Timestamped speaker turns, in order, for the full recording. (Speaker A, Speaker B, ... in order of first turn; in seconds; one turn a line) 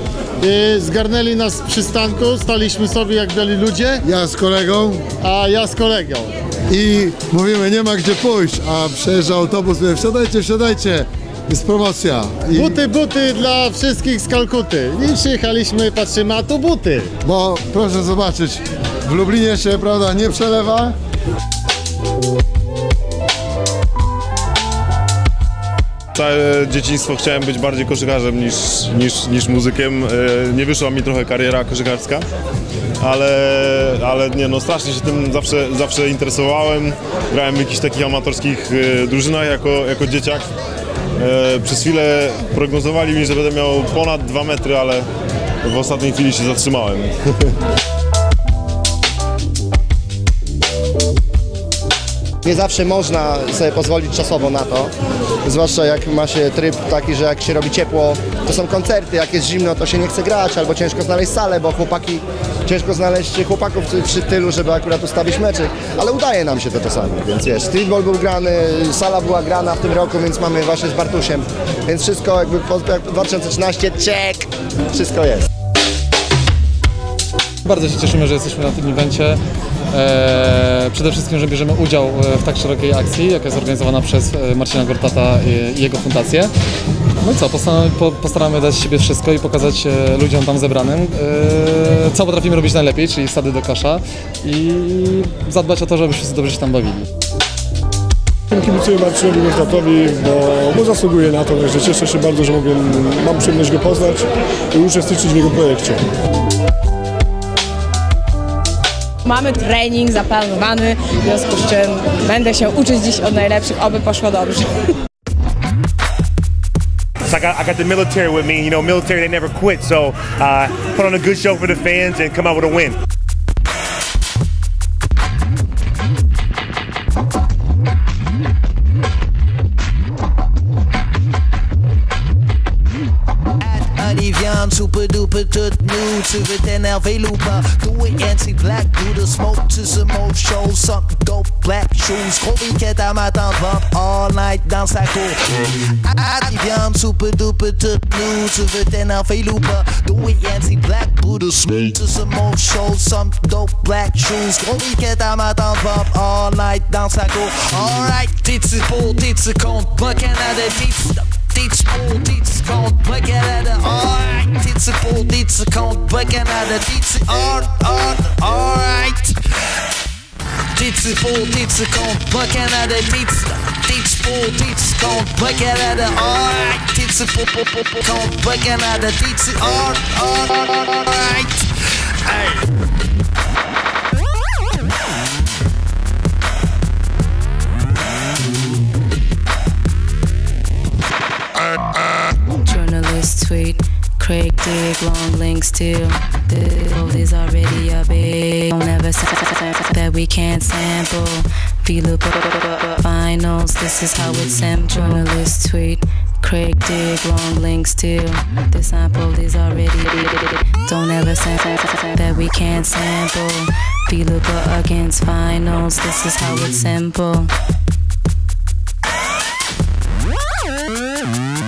Speaker A: 0.4-4.0
Speaker B: 4.0-5.1
Speaker A: 5.2-6.3
Speaker B: 6.7-12.7
Speaker A: 12.6-17.1
Speaker B: 17.2-20.9
Speaker C: 26.1-32.2
Speaker C: 33.0-40.5
Speaker C: 41.2-45.0
Speaker C: 45.6-47.1
Speaker D: 52.4-54.9
Speaker D: 55.4-75.5
Speaker E: 77.6-79.4
Speaker E: 79.9-86.5
Speaker E: 87.2-97.0
Speaker F: 98.5-106.0
Speaker G: 109.2-114.8
Speaker H: 117.3-123.0
Speaker I: 133.6-169.7
Speaker I: 170.7-182.6
Speaker J: 192.6-217.5